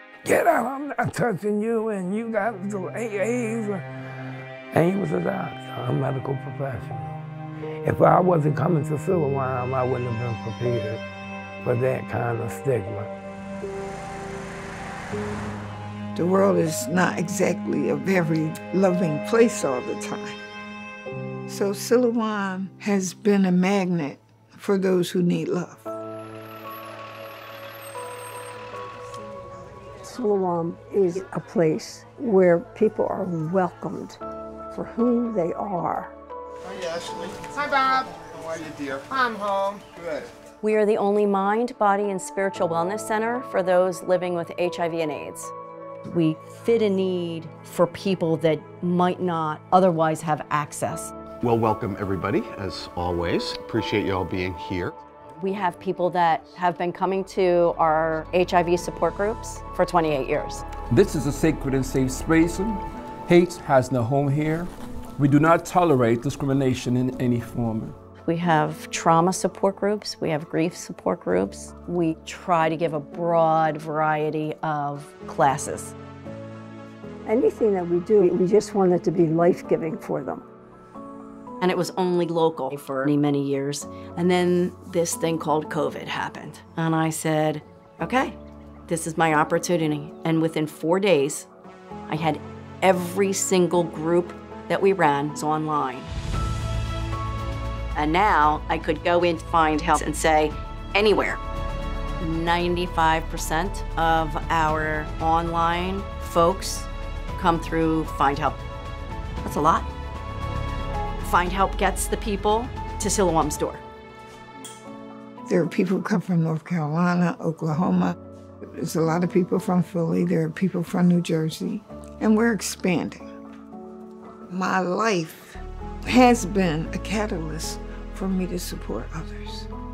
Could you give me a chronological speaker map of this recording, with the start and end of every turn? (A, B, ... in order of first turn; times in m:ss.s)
0:00.2-0:03.8 A
0:04.7-0:07.2 A
0:07.8-0:11.0 A
0:11.6-0:13.1 A
0:16.1-0:20.4 B
0:21.5-0:25.9 B
0:30.0-0:34.2 C
0:34.7-0:36.1 C
0:36.6-0:40.2 D
0:40.6-0:45.5 E
0:46.0-0:51.1 E
0:51.4-0:55.0 F
0:55.4-1:00.6 E
1:00.9-1:08.0 G
1:08.2-1:15.9 E
1:17.3-1:20.4 C
1:21.6-1:31.5 E
1:32.1-1:36.1 E
1:37.9-1:41.4 E
1:42.2-1:48.6 E
1:49.4-1:49.9 E
1:51.2-1:53.8 E
1:55.5-1:58.1 B
1:58.7-2:03.3 B
2:04.5-2:09.7 B